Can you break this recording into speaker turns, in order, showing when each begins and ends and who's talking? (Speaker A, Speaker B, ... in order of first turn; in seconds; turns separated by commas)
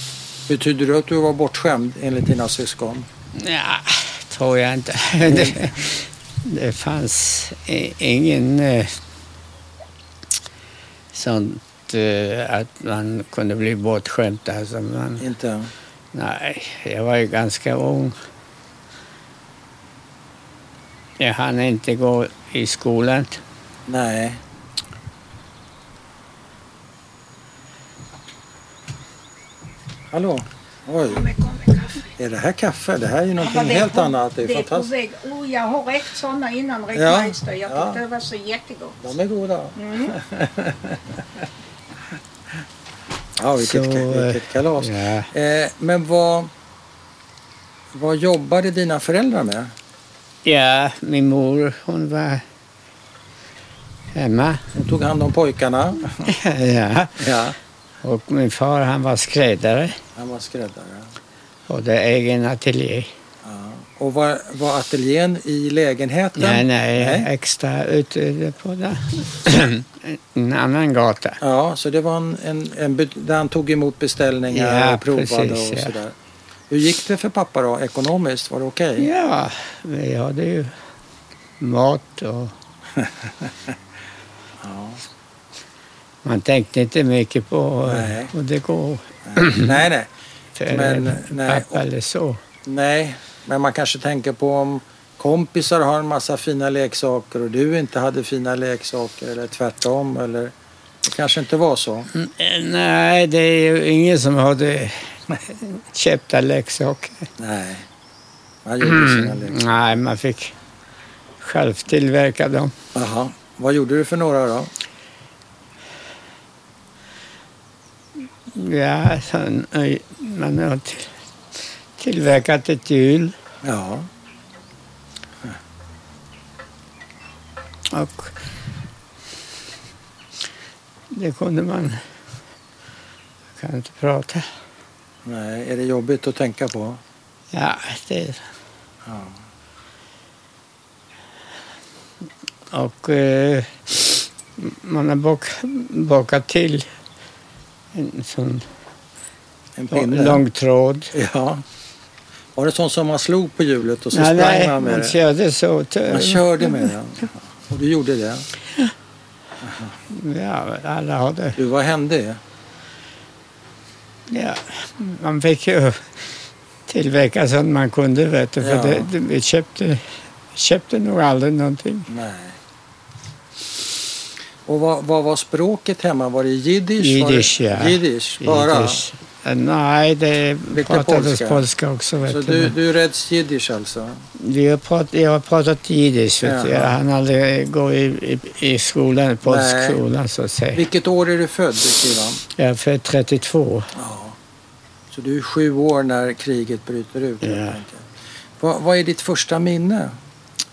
Speaker A: 0.5-3.1, Speaker B: 3.3-8.9, Speaker A: 5.3-5.8, Speaker B: 11.1-15.2, Speaker A: 15.2-15.7, Speaker B: 16.1-18.1, Speaker B: 21.2-23.4, Speaker A: 23.9-24.4, Speaker A: 30.1-31.3, Speaker C: 31.1-32.1, Speaker A: 32.2-34.9, Speaker C: 33.4-39.1, Speaker A: 36.9-38.0, Speaker A: 39.0-41.4, Speaker C: 39.8-40.1, Speaker A: 43.4-46.5, Speaker B: 43.5-45.3, Speaker A: 47.9-49.7, Speaker B: 50.4-52.4, Speaker B: 54.1-54.6, Speaker A: 54.7-56.3, Speaker B: 56.2-57.3, Speaker A: 57.2-57.5, Speaker B: 58.0-60.0, Speaker A: 60.1-61.1, Speaker B: 61.7-63.1, Speaker A: 63.4-67.3, Speaker B: 66.4-71.4, Speaker A: 71.4-76.1, Speaker B: 74.5-75.9, Speaker A: 76.7-79.1, Speaker B: 79.0-80.7, Speaker B: 81.6-82.5, Speaker A: 83.0-83.8, Speaker A: 84.6-85.0, Speaker B: 86.2-89.8, Speaker A: 87.8-88.3, Speaker A: 89.2-90.1, Speaker B: 90.5-92.4, Speaker A: 90.7-91.8, Speaker A: 92.6-102.1, Speaker B: 102.1-107.3, Speaker A: 107.4-107.9, Speaker A: 108.6-109.7, Speaker B: 108.8-110.5, Speaker B: 111.4-112.7, Speaker A: 112.9-114.7, Speaker B: 118.5-121.1, Speaker B: 122.0-123.3, Speaker A: 123.6-124.1, Speaker B: 127.9-128.3, Speaker B: 131.1-132.0, Speaker B: 133.6-134.4, Speaker A: 135.2-137.0, Speaker B: 137.5-138.4, Speaker A: 139.0-139.4, Speaker B: 142.7-146.9, Speaker B: 147.9-148.6, Speaker A: 149.8-150.4, Speaker B: 149.9-151.1, Speaker A: 151.1-151.6, Speaker A: 152.5-155.2, Speaker B: 154.1-156.9, Speaker A: 156.1-158.5, Speaker A: 159.6-159.9, Speaker B: 160.1-161.6, Speaker A: 161.6-162.4, Speaker B: 164.3-166.1, Speaker B: 166.9-172.1, Speaker A: 168.6-169.1, Speaker A: 172.1-172.6, Speaker A: 174.7-179.0, Speaker B: 177.0-182.7, Speaker A: 180.7-181.6, Speaker A: 182.2-184.2, Speaker B: 184.4-190.9, Speaker A: 186.4-187.0, Speaker A: 189.4-190.0, Speaker A: 190.7-192.4, Speaker B: 192.5-193.9, Speaker A: 193.9-194.4, Speaker A: 195.1-200.2, Speaker B: 197.4-197.8